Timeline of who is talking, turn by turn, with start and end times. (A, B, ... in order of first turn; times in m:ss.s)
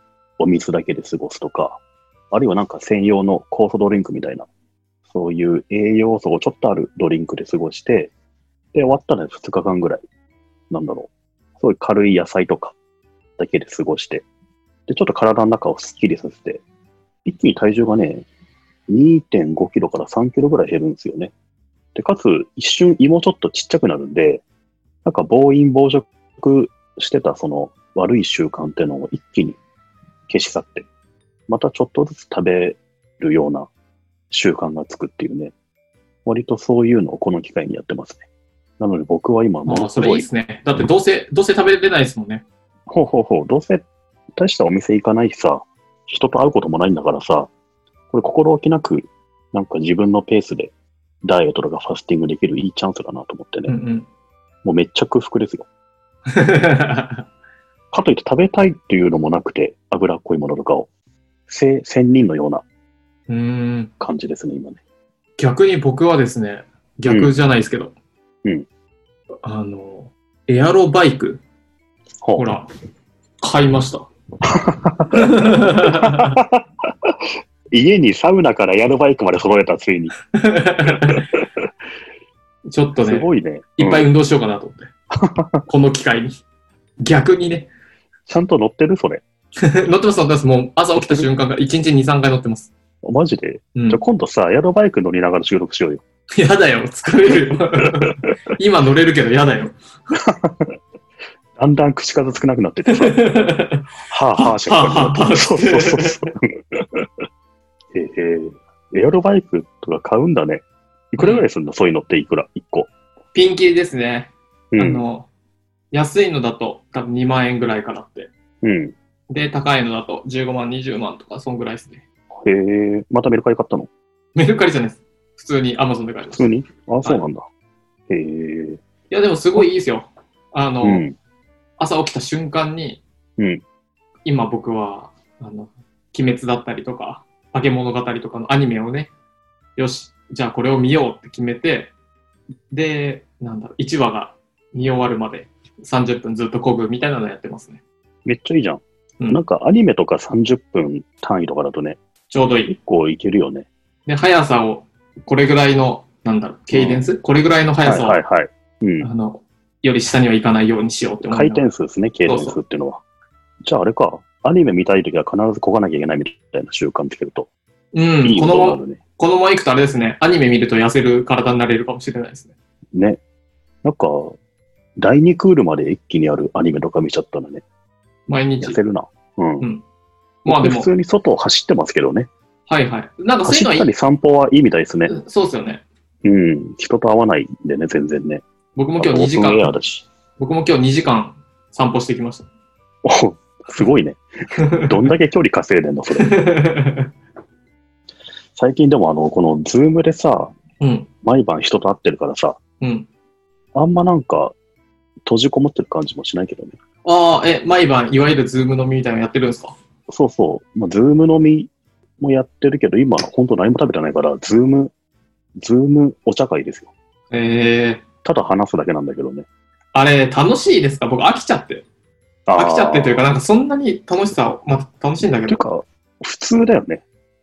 0:00.4-0:04.5 A
0:05.1-0:08.1 A
0:08.7-0:10.0 A
0:10.7-0:12.8 A
0:13.4-0:14.2 A
0:14.9-0:16.6 A
0:17.2-0:18.2 A
0:18.9-0:21.3 A
0:21.9-0:24.4 A
0:25.0-0:29.6 A
0:30.3-0:30.9 A
0:31.5-0:33.7 A
0:34.3-0:35.5 A
0:36.2-0:38.2 A
0:38.8-0:40.3 A
0:39.6-0:42.4 B
0:42.9-0:43.8 A
0:44.4-0:47.5 A
0:48.1-0:53.7 A
0:53.7-0:54.0 B
0:54.6-0:55.7 A
0:56.3-0:57.2 B
0:57.9-1:00.9 A
1:01.5-1:02.6 A
1:03.3-1:03.9 B
1:04.0-1:04.8 A
1:05.4-1:07.9 B
1:07.0-1:07.3 A
1:09.4-1:11.4 B
1:12.2-1:12.5 A
1:12.4-1:12.7 B
1:13.4-1:14.1 B
1:14.4-1:17.1 A
1:15.1-1:16.4 B
1:17.7-1:20.1 A
1:20.3-1:21.3 B
1:22.7-1:23.3 B
1:23.0-1:24.1 A
1:23.8-1:24.9 B
1:25.1-1:25.6 A
1:25.7-1:26.4 B
1:27.0-1:27.7 B
1:28.3-1:29.2 A
1:29.6-1:32.7 B
1:31.0-1:31.3 A
1:33.0-1:36.0 A
1:33.7-1:34.0 B
1:36.3-1:39.7 B
1:40.2-1:40.7 A
1:41.6-1:43.3 A
1:42.9-1:46.3 B
1:44.1-1:47.1 A
1:47.9-1:52.9 A
1:51.2-1:51.4 B
1:53.3-1:55.3 B
1:54.7-1:55.0 A
1:55.9-1:58.3 B
1:58.6-1:58.9 A
1:59.3-2:02.0 B
2:02.4-2:03.9 A
2:04.4-2:06.5 B
2:06.3-2:07.4 A
2:08.1-2:08.8 A
2:09.1-2:11.0 B
2:10.8-2:11.1 A
2:11.8-2:13.0 B
2:14.2-2:19.1 B
2:19.8-2:21.9 B
2:22.7-2:27.8 B
2:28.2-2:32.0 A
2:32.3-2:32.8 B
2:32.7-2:33.7 A
2:34.0-2:38.2 B
2:36.7-2:37.1 A
2:37.8-2:39.1 A
2:39.0-2:41.6 B
2:41.2-2:43.0 A
2:42.2-2:42.6 B
2:43.6-2:47.5 A
2:47.9-2:52.5 B
2:48.2-2:49.0 A
2:52.9-2:53.2 A
2:53.8-2:54.4 A
2:55.0-2:57.6 A
2:58.3-2:58.8 B
2:58.6-2:59.7 A
3:00.4-3:02.3 A
3:00.5-3:00.9 B
3:02.7-3:03.9 B
3:03.4-3:05.1 A
3:05.1-3:05.8 B
3:06.2-3:08.4 A
3:08.8-3:09.7 B
3:09.0-3:10.0 A
3:10.4-3:12.5 B
3:13.0-3:16.4 A
3:14.6-3:14.9 B
3:16.2-3:17.1 B
3:18.6-3:20.5 A
3:20.8-3:21.1 B
3:21.2-3:22.6 A
3:22.8-3:23.1 B
3:23.7-3:24.5 A
3:25.2-3:26.8 A
3:27.0-3:29.7 B
3:30.1-3:34.9 A
3:35.6-3:36.9 A
3:37.3-3:38.0 B
3:38.2-3:39.5 A
3:39.9-3:41.8 B
3:42.5-3:43.2 A
3:42.6-3:45.6 B
3:45.5-3:47.0 A